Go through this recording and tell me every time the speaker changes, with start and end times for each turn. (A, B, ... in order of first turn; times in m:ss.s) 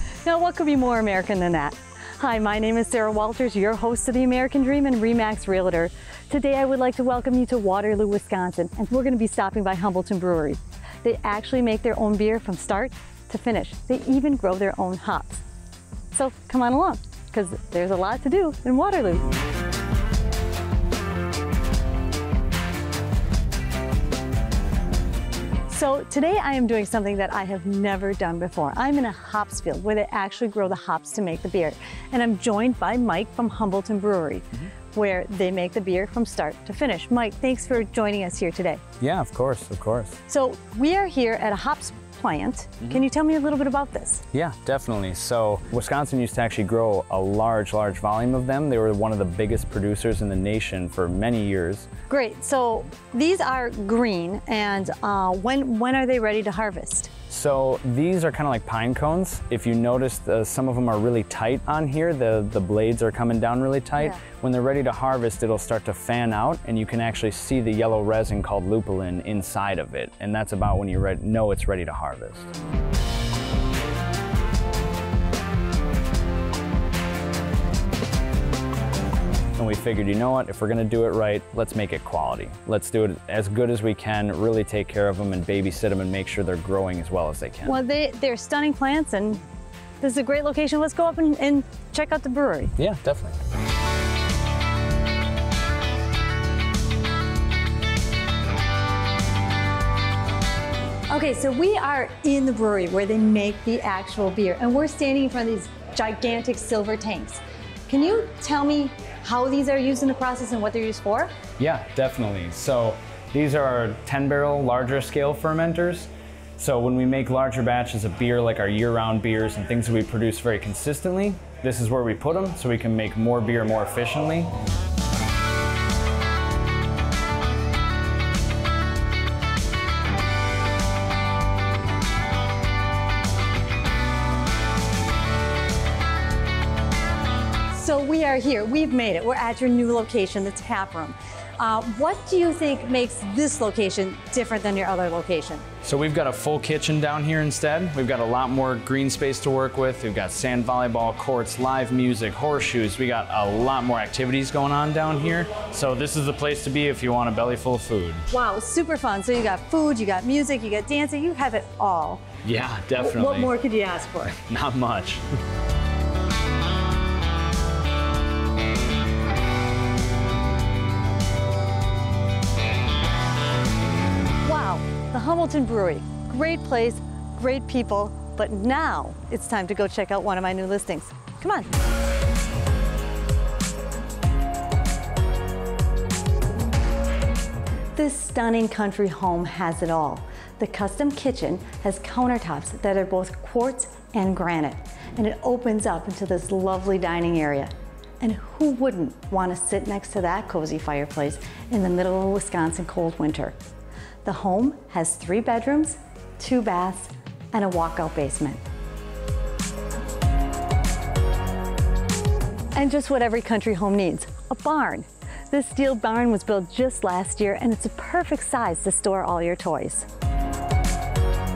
0:00.2-0:15.4 A
0:16.1-0:19.3 A
0:25.7-0:38.8 A
0:39.0-0:40.2 B
0:40.3-0:44.2 A
0:44.3-0:51.9 B
0:52.1-0:57.1 A
0:57.3-1:12.5 B
1:19.6-1:27.8 B
1:27.6-1:29.4 A
1:30.0-1:32.7 A
1:32.8-1:33.4 B
1:41.1-1:51.3 A
1:51.6-2:04.5 B
2:17.7-2:25.6 A
2:25.8-2:38.3 B
2:38.3-2:42.2 A
2:42.4-2:43.5 B
2:43.0-2:44.4 A
2:44.4-2:45.2 B
2:54.4-3:01.7 A
3:08.0-3:23.6 A
3:24.2-3:28.6 A
3:32.7-3:40.1 A